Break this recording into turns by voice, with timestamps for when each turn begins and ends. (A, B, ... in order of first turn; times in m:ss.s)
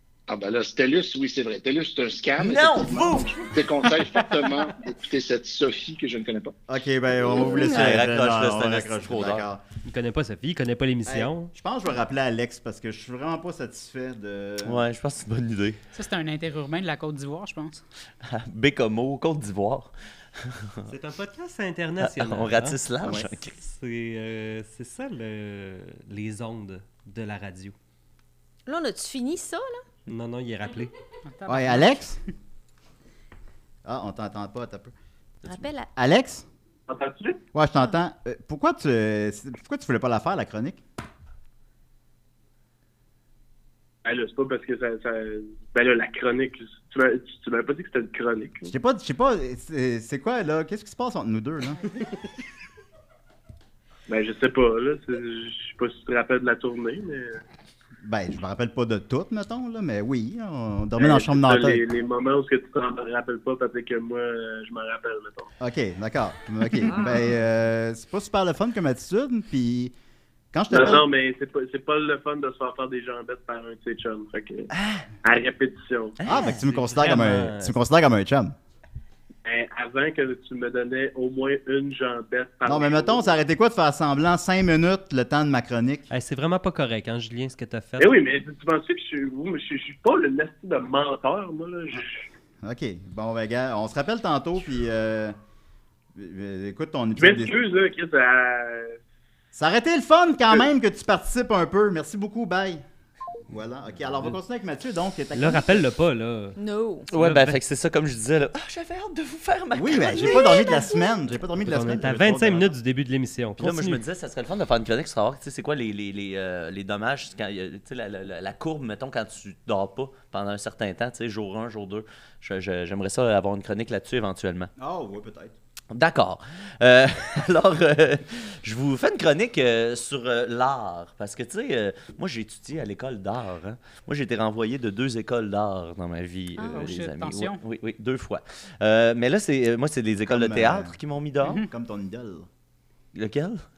0:00.3-0:06.5 A
0:02.4-0:03.5 B
0:06.7-0:09.6 C
0:07.5-0:09.4 B
0:09.8-0:11.5 D
0:11.0-0:14.8 C
0:14.6-0:15.8 B
0:15.9-0:17.8 E
0:18.3-0:20.9 B
0:20.9-0:27.7 D
0:22.0-0:23.6 B
0:28.6-0:29.8 F
0:30.1-0:30.9 D
0:31.4-0:32.0 E
0:31.5-0:32.2 C
0:33.8-0:34.9 C
0:35.4-0:36.4 C
0:35.5-0:35.9 F
0:36.9-0:37.4 G
0:37.5-0:40.8 C
0:44.0-0:48.7 G
0:48.6-0:51.9 C
0:54.1-0:57.4 G
0:58.0-1:01.8 C
1:01.0-1:05.5 G
1:05.6-1:09.9 C
1:10.5-1:11.0 C
1:10.7-1:14.7 G
1:14.7-1:15.0 B
1:15.2-1:16.2 G
1:16.2-1:18.5 C
1:16.3-1:17.7 D
1:19.4-1:23.3 G
1:22.6-1:26.0 C
1:26.1-1:28.2 D
1:28.0-1:32.2 G
1:32.6-1:35.4 C
1:36.1-1:37.6 C
1:37.2-1:39.0 G
1:39.5-1:42.8 C
1:43.5-1:45.9 C
1:45.3-1:46.6 D
1:46.6-1:47.1 F
1:47.1-1:47.6 D
1:47.1-1:50.7 B
1:49.7-1:52.8 C
1:50.0-1:51.2 F
1:51.6-1:54.0 D
1:53.6-2:04.7 B
2:04.8-2:05.5 C
2:05.9-2:21.6 B
2:16.6-2:17.6 E
2:20.3-2:21.0 C
2:21.5-2:22.5 C
2:23.1-2:23.6 B